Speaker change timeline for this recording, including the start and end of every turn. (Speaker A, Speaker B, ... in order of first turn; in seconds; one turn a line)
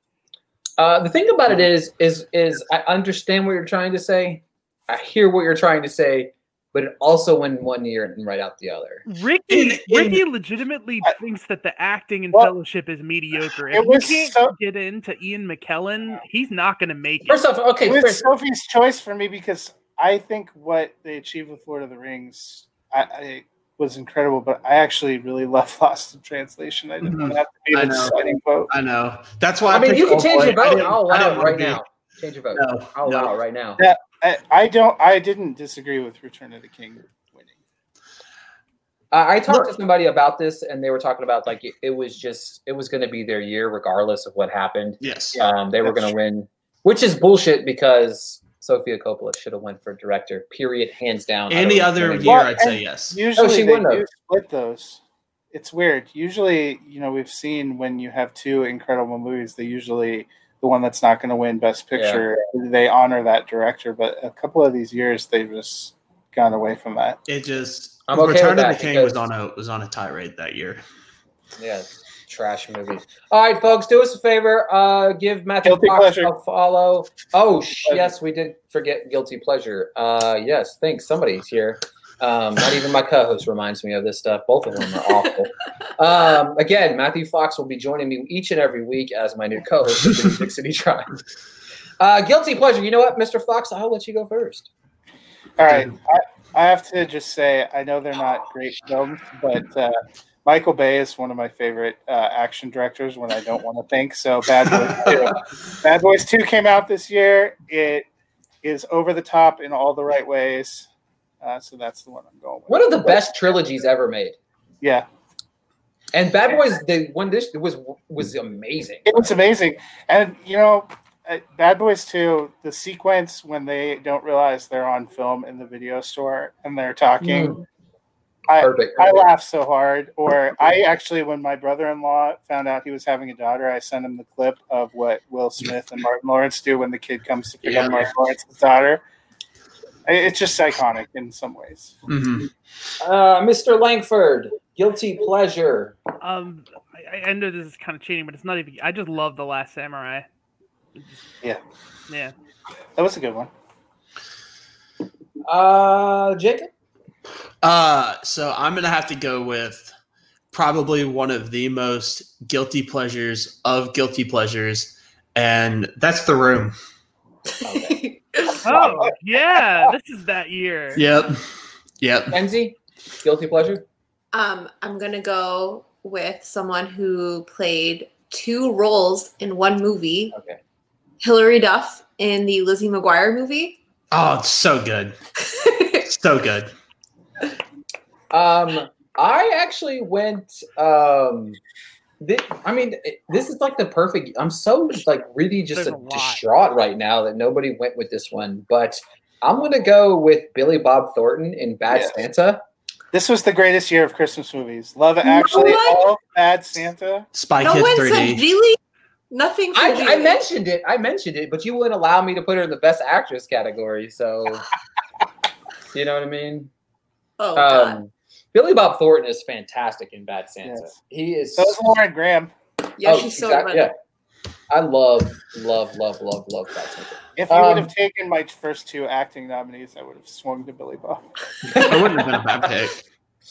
Speaker A: 0.8-9.0
Speaker B: 9.1-17.4
Speaker C: 9.5-10.2
Speaker D: 13.7-14.5
Speaker A: 17.2-18.2
Speaker D: 17.8-28.7
Speaker C: 27.0-28.2
Speaker C: 28.7-31.8
Speaker A: 29.7-33.8
Speaker C: 32.5-33.4
Speaker D: 33.8-37.5
Speaker A: 39.1-52.4
Speaker C: 45.0-45.4
Speaker C: 51.5-53.2
Speaker D: 52.2-55.0
Speaker A: 53.4-54.0
Speaker D: 55.5-67.2
Speaker A: 62.0-62.3
Speaker C: 67.2-70.8
Speaker A: 68.1-69.3
Speaker A: 71.6-91.1
Speaker D: 75.6-76.3
Speaker A: 92.0-94.7
Speaker D: 95.6-108.0
Speaker D: 108.6-110.9
Speaker D: 111.4-113.2
Speaker A: 112.7-114.3
Speaker D: 114.8-115.0
Speaker A: 116.1-119.2
Speaker D: 119.0-127.6
Speaker A: 127.2-127.6
Speaker D: 128.5-139.0
Speaker A: 128.6-129.2
Speaker C: 137.6-138.1
Speaker D: 140.1-142.0
Speaker C: 142.1-142.5
Speaker A: 143.0-145.9
Speaker B: 146.2-150.2
Speaker B: 152.1-152.3
Speaker D: 152.9-153.5
Speaker A: 155.4-156.7
Speaker C: 157.6-159.9
Speaker C: 160.5-166.8
Speaker A: 167.6-168.0
Speaker E: 167.7-168.8
Speaker B: 168.6-171.0
Speaker A: 168.7-169.1
Speaker C: 170.9-171.4
Speaker C: 172.0-172.4
Speaker A: 172.3-173.8
Speaker E: 174.3-180.3
Speaker A: 180.3-180.6
Speaker E: 181.2-183.8
Speaker C: 184.1-185.1
Speaker E: 185.5-186.0
Speaker C: 186.0-186.7
Speaker A: 188.3-191.6
Speaker A: 192.2-202.6
Speaker B: 195.7-196.4
Speaker D: 201.9-202.2
Speaker D: 203.1-207.3
Speaker E: 205.2-206.1
Speaker C: 207.3-208.5
Speaker E: 207.6-208.8
Speaker E: 209.3-210.4
Speaker A: 209.7-214.7
Speaker A: 215.9-216.7
Speaker E: 217.4-218.0
Speaker A: 217.6-221.8
Speaker D: 220.7-220.9
Speaker D: 221.5-222.5
Speaker E: 223.0-223.9
Speaker A: 223.0-223.9
Speaker A: 224.7-227.9
Speaker D: 227.4-231.2
Speaker A: 231.7-232.3
Speaker C: 231.7-233.0